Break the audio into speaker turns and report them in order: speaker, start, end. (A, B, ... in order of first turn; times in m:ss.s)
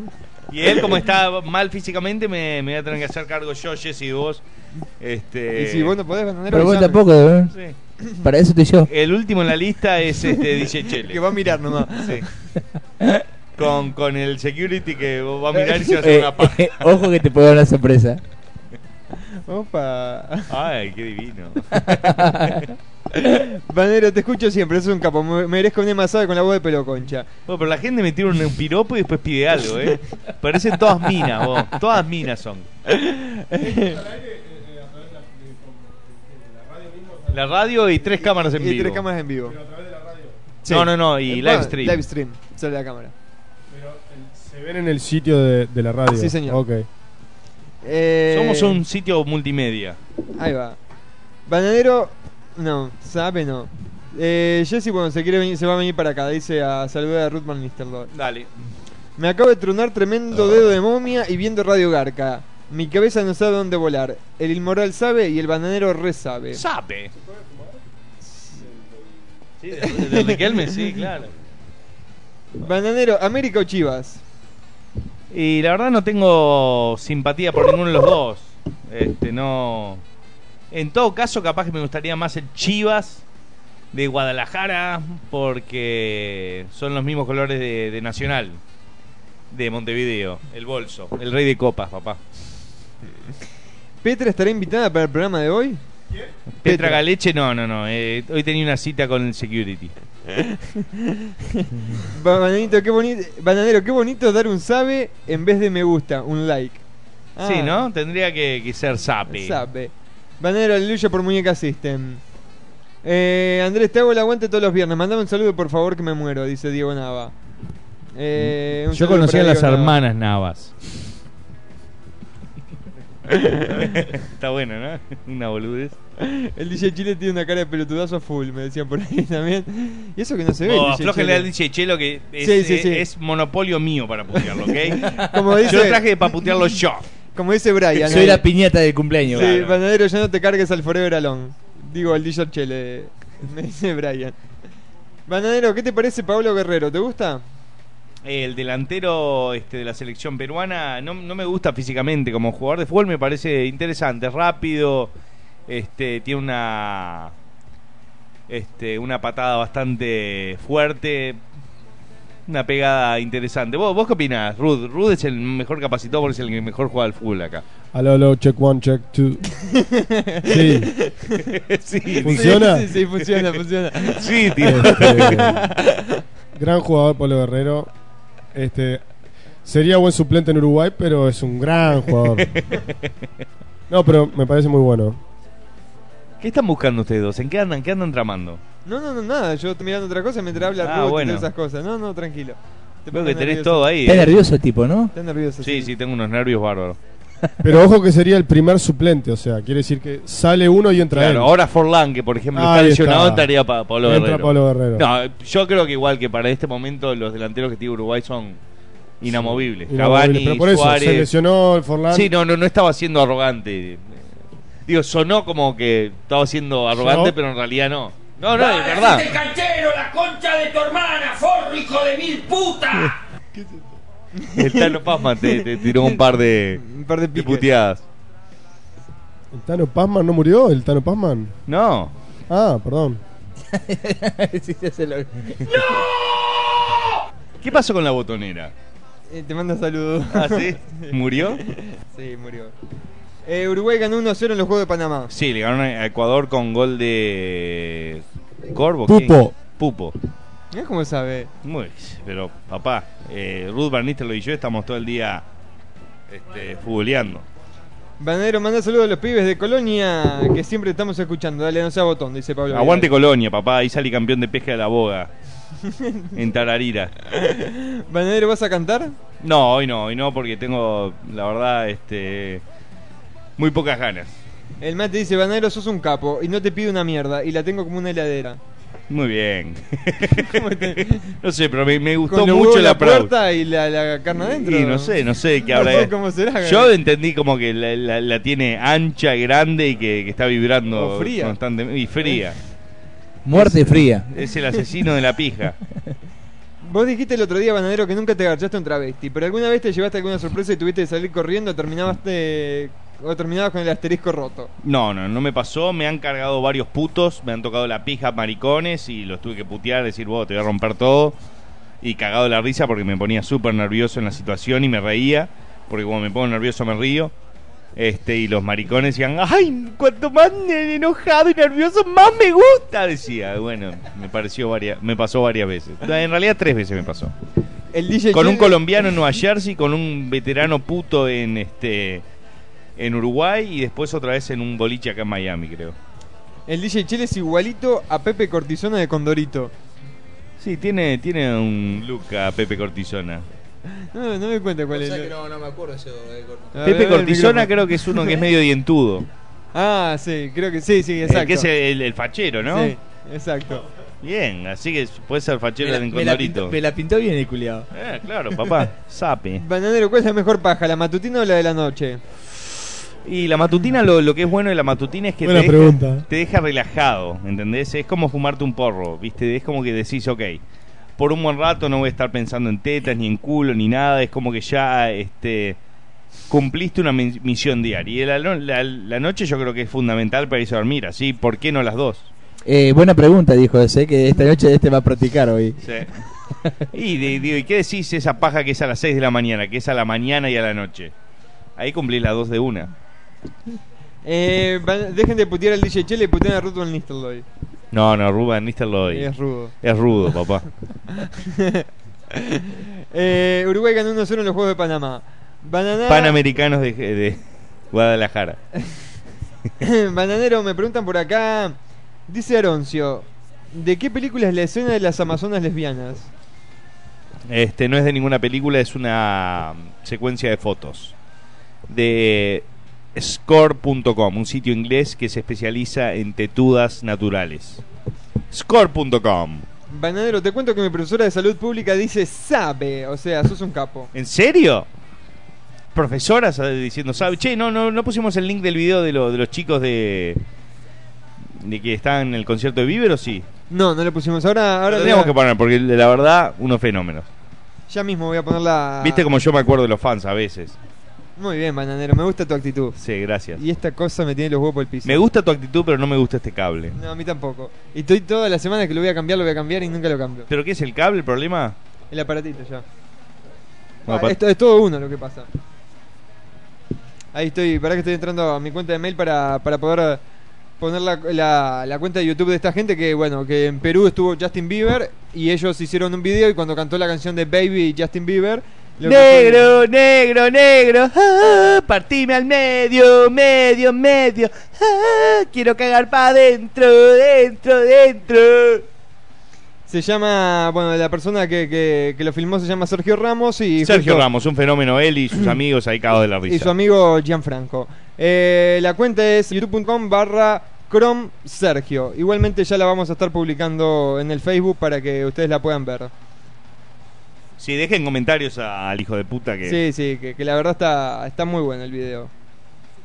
0:00.5-0:04.4 A
0:05.0-0:06.0 A
0:05.5-0:07.0 B
0:06.5-0:07.5 C
0:08.2-0:08.9 C
0:08.9-0:11.2 A
0:11.0-0:12.2 B
0:11.9-0:12.2 A
0:13.6-0:16.9 A
0:16.0-0:18.2 C
0:19.5-0:20.5 B
0:20.5-0:22.1 A
0:22.0-0:22.6 C
0:23.2-0:27.3 B
0:27.5-0:32.6 A
0:33.0-0:34.0 B
0:34.1-0:35.8 D
0:36.6-0:37.2 D
0:37.3-0:39.0 A
0:38.3-0:39.6 B
0:39.5-0:40.4 D
0:40.6-0:43.1 B
0:40.7-0:42.0 A
0:43.7-0:46.9 D
0:46.1-0:46.6 B
0:47.8-0:48.8 B
0:48.3-0:50.0 A
0:50.4-0:50.8 B
0:51.5-0:58.1 B
0:58.1-0:58.5 A
0:59.2-1:06.6 B
1:06.5-1:07.1 A
1:09.6-1:11.3 A
1:09.8-1:10.7 B
1:12.6-1:14.2 B
1:15.3-1:20.0 A
1:20.7-1:23.2 A
1:23.9-1:28.6 A
1:29.5-1:32.2 A
1:34.0-1:35.8 B
1:36.6-1:39.9 A
1:36.6-1:37.0 B
1:40.5-1:41.3 B
1:42.0-1:46.8 B
1:47.4-1:47.8 B
1:47.4-1:49.6 A
1:49.3-1:52.2 B
1:53.0-1:57.3 B
1:58.2-1:59.9 B
1:58.9-2:00.7 A
2:03.7-2:06.0 A
2:06.2-2:11.5 B
2:10.6-2:15.1 A
2:12.4-2:13.0 B
2:14.6-2:16.6 B
2:15.6-2:17.0 A
2:17.3-2:18.4 B
2:18.1-2:19.5 C
2:19.3-2:24.4 B
2:19.3-2:19.8 A
2:25.3-2:27.4 B
2:28.2-2:35.1 A
2:35.7-2:37.3 A
2:38.5-2:41.4 A
2:42.5-2:47.6 A
2:47.9-2:49.4 D
2:49.7-2:51.5 B
2:50.5-2:50.9 D
2:51.7-2:52.7 A
2:52.2-2:52.9 D
2:52.2-2:56.0 B
2:53.3-2:55.5 A
2:54.7-2:55.6 D
2:56.6-2:57.9 D
2:58.5-2:59.0 D
2:59.6-3:02.5 D
3:03.9-3:05.2 D
3:06.4-3:08.6 A
3:08.8-3:13.9 B
3:10.8-3:11.5 A
3:13.1-3:14.3 A
3:14.0-3:15.1 C
3:15.1-3:15.9 B
3:15.6-3:17.0 A
3:17.6-3:21.5 D
3:21.1-3:28.6 A
3:22.5-3:23.5 D
3:24.0-3:25.0 D
3:29.2-3:31.3 A
3:29.3-3:32.3 D
3:32.1-3:34.2 A
3:34.9-3:39.3 A
3:36.9-3:37.3 D
3:38.6-3:43.1 E
3:44.4-3:45.6 B
3:44.6-3:46.8 A
3:46.8-3:47.6 B
3:47.4-3:48.0 A
3:49.5-3:51.5 D
3:51.7-3:52.1 A
3:52.5-3:53.2 D
3:53.7-3:55.7 C
3:57.6-3:58.7 A
3:59.3-4:02.7 B
4:00.3-4:01.6 A
4:03.4-4:05.3 B
4:05.3-4:10.1 A
4:09.1-4:09.5 D
4:10.7-4:11.5 B
4:11.6-4:15.4 A
4:16.3-4:17.4 A
4:18.2-4:23.1 B
4:22.7-4:25.3 A
4:25.9-4:26.3 B
4:26.3-4:27.1 A
4:27.3-4:29.2 B
4:29.4-4:32.6 A
4:33.6-4:34.3 A
4:34.8-4:38.6 B
4:39.1-4:43.3 A
4:40.4-4:41.3 B
4:42.3-4:45.2 B
4:44.4-4:52.6 A
4:45.7-4:46.9 B
4:50.9-4:51.6 B
4:53.4-4:54.3 C
4:54.3-4:55.8 A
4:56.8-5:04.7 B
5:04.8-5:11.4 A
5:12.0-5:17.3 A
5:18.0-5:27.3 A
5:27.9-5:28.8 B
5:28.3-5:32.2 A
5:33.0-5:35.9 A
5:36.7-5:39.7 B
5:40.6-5:43.4 A
5:44.1-5:45.3 B
5:44.9-5:46.9 C
5:46.8-5:48.4 B
5:46.8-5:49.3 A
5:49.7-5:51.7 B
5:51.2-5:52.9 A
5:52.7-5:53.8 B
5:54.2-5:56.7 A
5:55.8-5:57.9 C
5:57.9-5:59.6 A
5:59.6-6:02.2 B
6:03.2-6:10.6 A
6:05.4-6:06.2 D
6:11.2-6:15.8 A
6:16.5-6:22.3 A
6:22.6-6:25.8 C
6:25.8-6:26.1 A
6:26.9-6:31.1 A
6:31.8-6:32.9 A
6:34.2-6:37.4 B
6:37.9-6:39.3 A
6:39.1-6:39.7 B
6:39.8-6:40.7 A
6:41.2-6:41.8 B
6:42.4-6:46.3 B
6:46.1-6:48.6 A
6:49.8-6:51.8 B
6:52.3-6:56.3 B
6:57.5-7:01.1 A
7:01.9-7:07.8 A
7:08.5-7:09.6 A
7:09.9-7:14.1 B
7:14.1-7:14.8 A
7:15.9-7:20.4 A
7:21.6-7:23.4 A
7:23.7-7:25.3 B
7:24.9-7:27.3 A
7:27.9-7:29.3 B
7:29.0-7:30.8 A
7:31.4-7:32.9 B
7:33.0-7:33.6 A
7:33.6-7:35.2 B
7:35.0-7:36.9 A
7:36.9-7:40.5 B
7:40.5-7:41.8 A
7:42.1-7:42.8 B
7:44.1-7:44.4 A
7:44.1-7:45.5 B
7:47.3-7:50.2 B
7:50.8-7:59.7 B
7:59.0-8:08.8 A
8:09.9-8:14.2 B
8:13.8-8:16.7 A
8:16.5-8:26.1 B
8:27.6-8:29.8 A
8:29.6-8:32.3 B